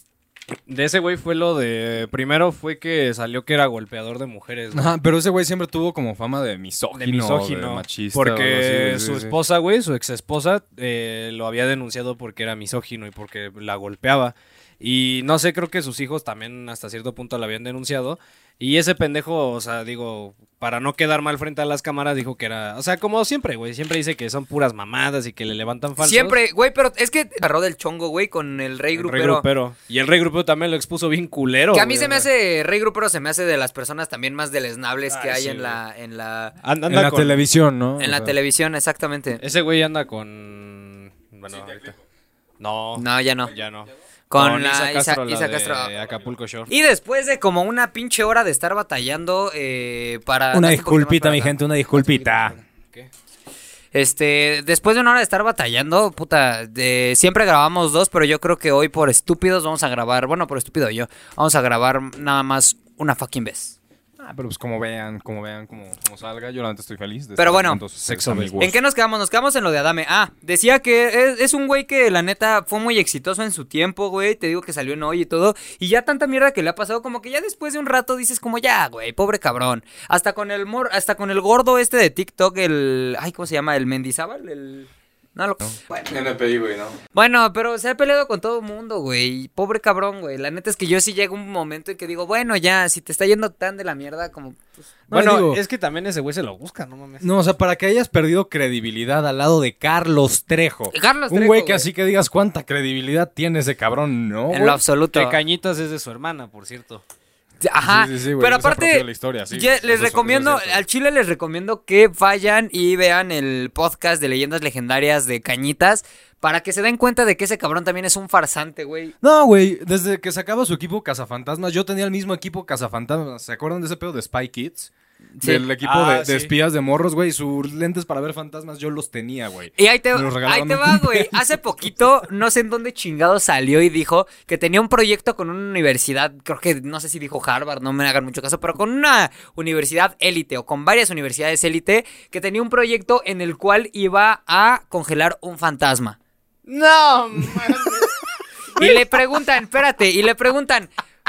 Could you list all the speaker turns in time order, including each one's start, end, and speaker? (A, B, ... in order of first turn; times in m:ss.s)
0:00.7-0:04.9 A
0:04.7-0:09.4 B
0:06.9-0:26.4 A
0:26.0-0:29.4 C
0:29.0-0:32.3 A
0:31.7-0:36.5 C
0:35.1-0:35.8 A
0:36.6-0:37.4 A
0:36.9-0:38.4 B
0:38.0-0:39.4 C
0:39.4-0:42.0 A
0:41.6-0:42.0 B
0:42.6-0:46.7 A
0:43.0-0:43.5 C
0:44.3-0:45.9 C
0:46.7-0:52.6 C
0:50.5-0:52.6 B
0:53.9-1:03.8 C
1:04.2-1:08.8 B
1:07.4-1:07.8 C
1:08.0-1:08.6 A
1:08.6-1:26.1 C
1:26.1-1:27.0 B
1:27.1-1:34.6 C
1:35.1-1:35.6 B
1:35.1-1:37.3 A
1:37.2-1:44.8 B
1:40.9-1:41.9 C
1:44.5-1:45.4 C
1:45.1-1:47.0 A
1:47.6-1:59.1 C
1:47.8-1:50.8 B
1:59.2-2:11.4 B
2:05.4-2:05.6 C
2:05.8-2:06.5 A
2:09.8-2:26.2 C
2:26.7-2:28.2 A
2:28.8-2:29.0 A
2:28.8-2:30.9 C